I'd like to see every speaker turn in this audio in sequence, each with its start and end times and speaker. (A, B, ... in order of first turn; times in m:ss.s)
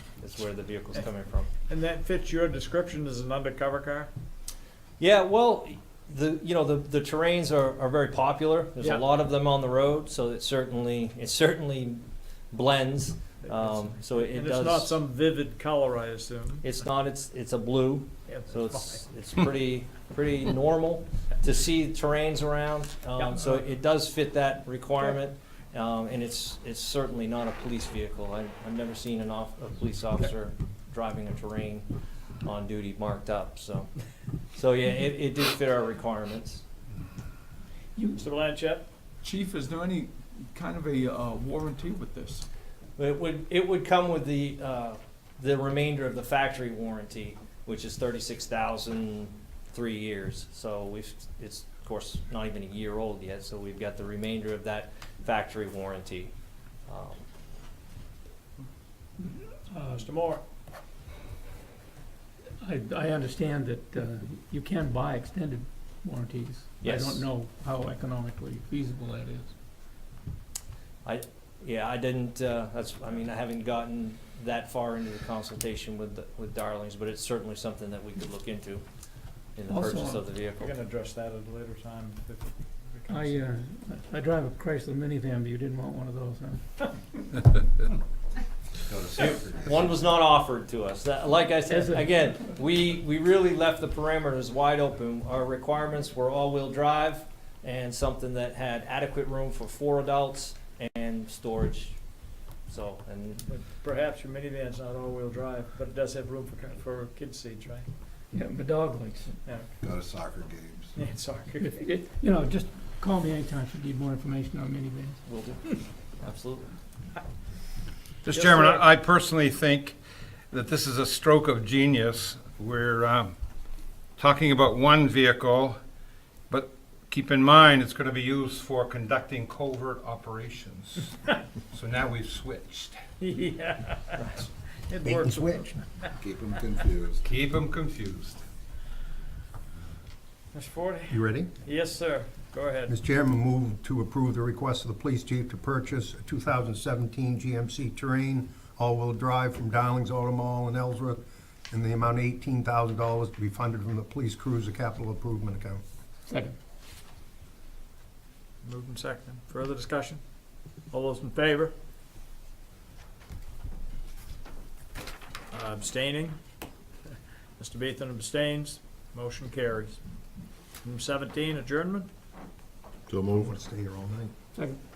0:00.2-0:01.5 A
0:01.7-0:04.1 B
0:05.0-0:15.0 A
0:13.4-0:16.7 B
0:16.6-0:31.9 A
0:18.3-0:19.0 B
0:23.2-0:23.6 B
0:32.4-0:33.9 A
0:34.5-0:36.6 A
0:38.2-0:38.9 B
0:39.2-0:42.4 C
0:43.0-0:56.3 A
0:56.9-0:57.2 A
0:59.7-1:00.1 D
0:59.8-1:00.4 B
1:02.6-1:09.5 D
1:06.8-1:07.3 A
1:11.0-1:18.8 A
1:19.6-1:20.7 A
1:19.7-1:20.2 D
1:20.6-1:23.5 B
1:23.1-1:26.6 D
1:28.9-1:30.0 E
1:29.2-1:42.0 A
1:31.7-1:32.3 D
1:42.7-1:43.4 A
1:43.4-1:47.9 B
1:48.3-1:49.4 D
1:49.4-1:49.7 B
1:49.8-1:50.9 E
1:51.0-1:51.9 B
1:51.6-1:55.2 D
1:55.3-1:56.8 A
1:58.2-2:00.0 F
1:58.3-1:58.8 B
2:00.5-2:03.3 F
2:04.2-2:05.8 F
2:06.5-2:11.2 F
2:11.7-2:13.0 F
2:13.2-2:14.3 B
2:14.2-2:14.4 A
2:14.8-2:16.1 B
2:15.0-2:15.8 G
2:16.2-2:17.2 E
2:17.2-2:18.4 F
2:20.5-2:22.9 B
2:21.1-2:21.5 G
2:22.9-2:35.8 G
2:36.3-2:36.6 D
2:38.6-2:40.2 B
2:40.9-2:41.7 B
2:45.5-2:46.4 B
2:47.1-2:50.0 B
2:50.8-2:52.1 B
2:53.2-2:54.3 G